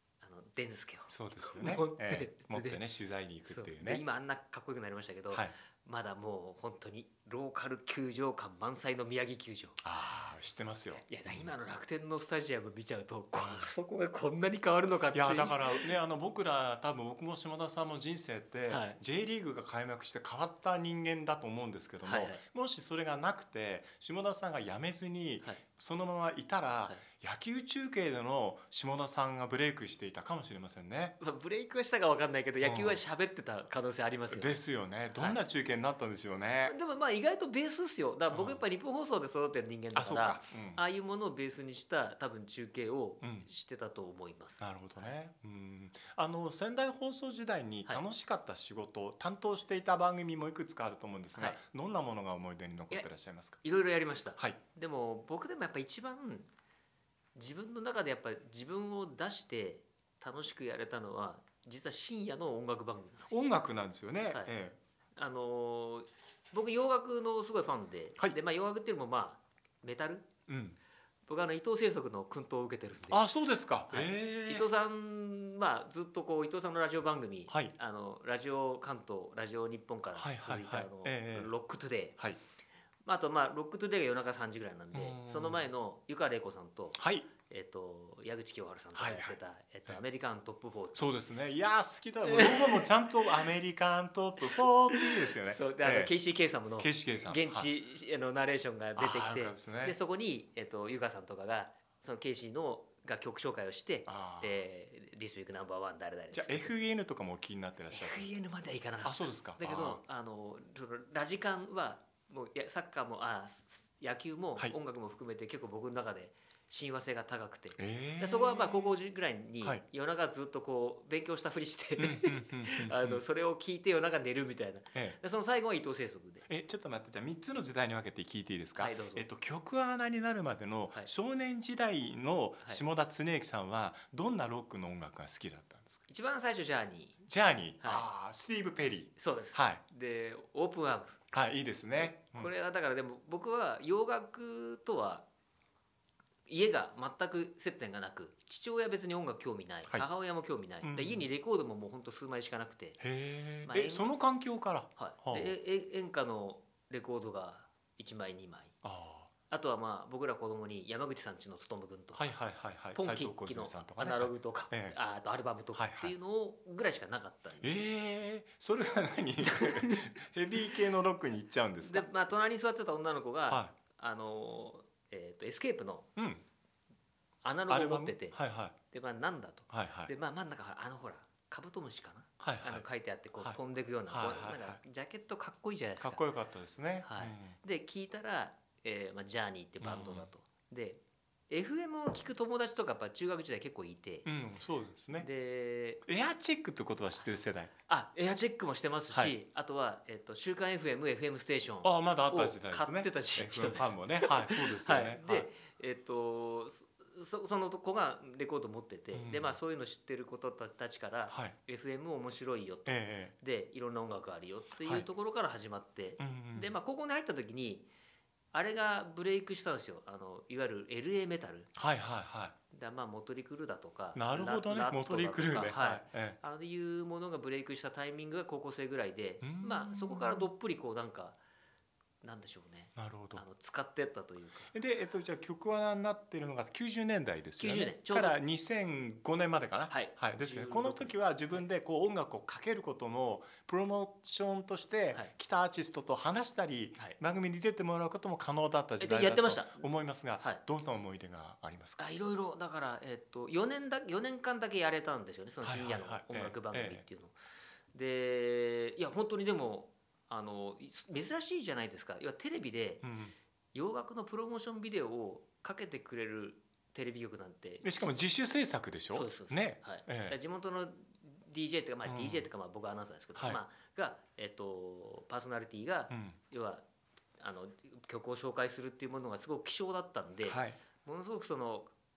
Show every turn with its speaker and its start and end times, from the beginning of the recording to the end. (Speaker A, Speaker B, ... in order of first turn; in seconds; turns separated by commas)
Speaker A: 0.2-2.8, Speaker B: 1.1-4.0, Speaker A: 3.5-9.8, Speaker B: 9.8-11.5, Speaker A: 10.9-16.0, Speaker B: 13.3-13.7, Speaker B: 15.1-31.2, Speaker A: 18.7-19.0, Speaker A: 22.0-22.4, Speaker A: 31.2-34.6, Speaker B: 32.6-33.0, Speaker B: 34.3-36.7, Speaker A: 36.6-45.1, Speaker B: 38.3-38.6, Speaker B: 40.0-40.8, Speaker B: 43.2-43.5, Speaker B: 44.6-53.6, Speaker A: 51.3-51.6, Speaker A: 53.6-56.5, Speaker A: 57.4-63.4, Speaker B: 63.3-64.8, Speaker A: 65.2-70.3, Speaker B: 70.5-70.8, Speaker A: 71.3-73.2, Speaker B: 73.1-74.7, Speaker A: 73.9-82.2, Speaker B: 77.5-77.8, Speaker B: 80.2-81.5, Speaker A: 83.0-91.0, Speaker B: 84.9-85.7, Speaker B: 87.0-87.3, Speaker B: 89.0-90.0, Speaker B: 91.0-96.1, Speaker A: 92.2-92.9, Speaker A: 94.4-106.7, Speaker B: 96.8-97.7, Speaker B: 99.0-100.0, Speaker B: 104.1-104.6, Speaker B: 106.3-108.3, Speaker A: 107.9-126.5, Speaker B: 109.0-110.0, Speaker B: 117.8-118.9, Speaker B: 122.0-123.2, Speaker B: 126.5-136.0, Speaker A: 128.8-129.3, Speaker A: 136.1-137.2, Speaker B: 137.3-139.8, Speaker A: 137.8-138.1, Speaker A: 139.2-141.2, Speaker B: 141.3-142.5, Speaker A: 142.0-145.3, Speaker A: 146.5-153.0, Speaker B: 150.8-151.3, Speaker B: 153.0-155.6, Speaker A: 153.7-154.1, Speaker A: 155.0-158.7, Speaker B: 158.8-159.3, Speaker A: 159.5-162.3, Speaker B: 162.1-165.0, Speaker A: 162.9-167.8, Speaker B: 165.8-166.1, Speaker B: 167.6-172.1, Speaker A: 169.5-170.1, Speaker A: 171.8-176.1, Speaker B: 173.5-173.8, Speaker B: 176.2-176.4, Speaker A: 177.4-178.4, Speaker B: 177.7-178.8, Speaker A: 178.9-186.2, Speaker B: 179.7-180.1, Speaker B: 182.4-182.9, Speaker B: 184.1-184.8, Speaker B: 186.0-187.6, Speaker A: 187.0-194.3, Speaker B: 189.8-190.3, Speaker B: 194.3-195.3, Speaker A: 195.1-196.0, Speaker B: 196.1-197.7, Speaker A: 197.2-217.9, Speaker B: 199.1-199.3, Speaker B: 201.8-205.5, Speaker B: 209.1-209.6, Speaker B: 211.3-211.6, Speaker B: 212.9-213.3, Speaker B: 216.2-216.7, Speaker A: 218.5-221.7, Speaker B: 221.8-222.6, Speaker A: 222.7-231.4, Speaker B: 224.2-226.4, Speaker B: 229.4-230.5, Speaker A: 232.2-234.7, Speaker B: 233.0-233.4, Speaker B: 234.7-252.0, Speaker A: 237.6-238.4, Speaker A: 239.9-241.7, Speaker A: 249.0-249.8, Speaker A: 252.0-257.4, Speaker B: 255.6-257.1, Speaker A: 257.9-263.1, Speaker B: 263.0-263.3, Speaker A: 263.7-268.1, Speaker B: 267.8-270.4, Speaker A: 269.1-276.8, Speaker B: 272.1-272.5, Speaker B: 273.4-273.6, Speaker B: 276.1-276.4, Speaker A: 277.4-281.9, Speaker B: 280.4-280.8